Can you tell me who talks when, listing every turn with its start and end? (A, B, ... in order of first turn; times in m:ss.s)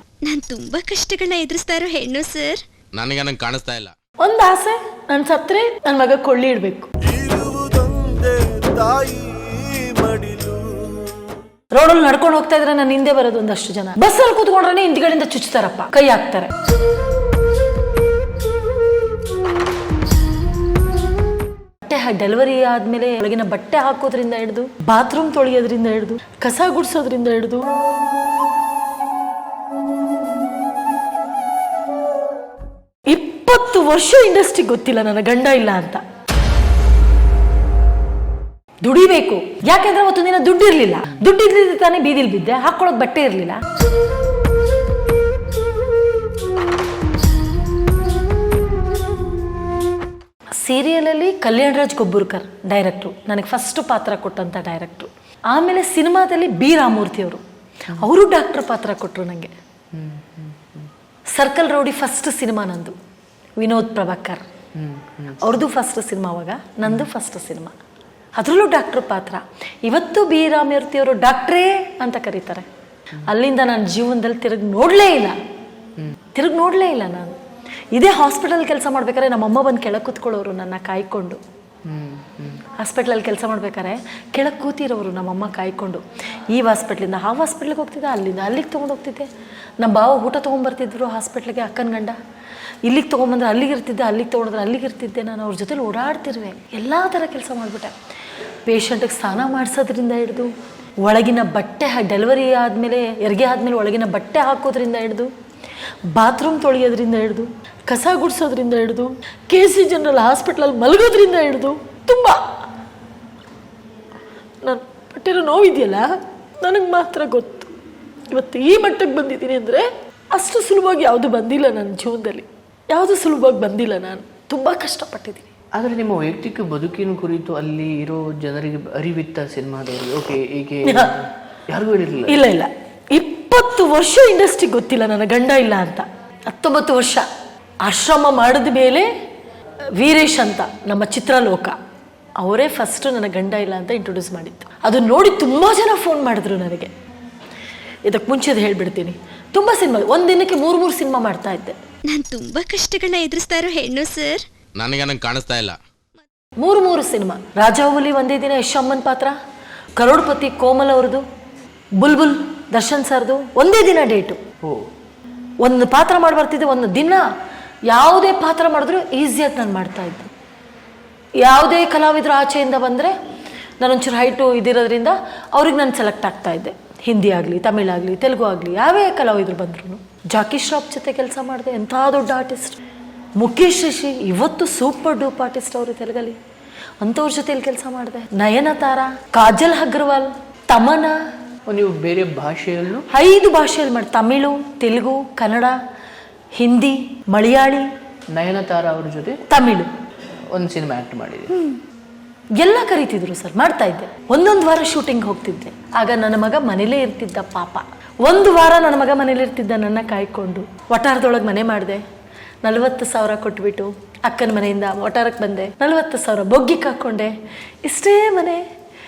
0:00.2-0:02.6 A
0:02.9-0:03.9 B
0:04.2-0:06.9 C
0:07.0-0:11.1 D
0:11.7-0:16.5 C
0:21.8-0:27.7 C
0:33.1-0:36.0 C
0:38.8-0:43.6 C
0:50.6-0:57.4 C
0:57.9-0:59.5 C
0:59.9-1:00.9 E
1:01.3-1:03.0 C
1:03.6-1:04.4 C
1:04.7-1:05.5 E
1:05.4-1:07.7 C
1:08.3-1:12.6 C
1:13.2-1:15.4 C
1:16.3-1:17.4 C
1:17.9-1:21.4 C
1:21.8-1:22.6 E
1:22.8-1:32.2 C
1:32.8-1:38.0 C
1:38.6-1:45.3 C
1:46.1-1:52.6 C
1:54.6-1:57.7 C
1:58.3-2:05.5 C
2:05.7-2:12.4 E
2:10.8-2:11.1 C
2:12.3-2:17.3 C
2:17.8-2:19.1 C
2:20.0-2:21.8 C
2:22.4-2:26.9 C
2:28.0-2:31.8 C
2:32.0-2:34.4 A
2:34.8-2:35.8 B
2:36.6-2:39.4 C
2:40.0-2:41.2 C
2:42.0-2:44.4 C
2:44.6-2:44.9 E
2:45.6-2:47.3 C
2:47.9-2:50.3 C
2:51.4-2:53.1 C
2:53.8-3:02.8 C
3:03.4-3:06.4 C
3:07.0-3:11.2 C
3:11.7-3:13.1 E
3:13.1-3:15.8 C
3:16.5-3:17.9 C
3:18.3-3:19.4 E
3:19.5-3:19.9 C
3:20.5-3:21.6 E
3:22.6-3:32.0 C
3:32.6-3:38.6 C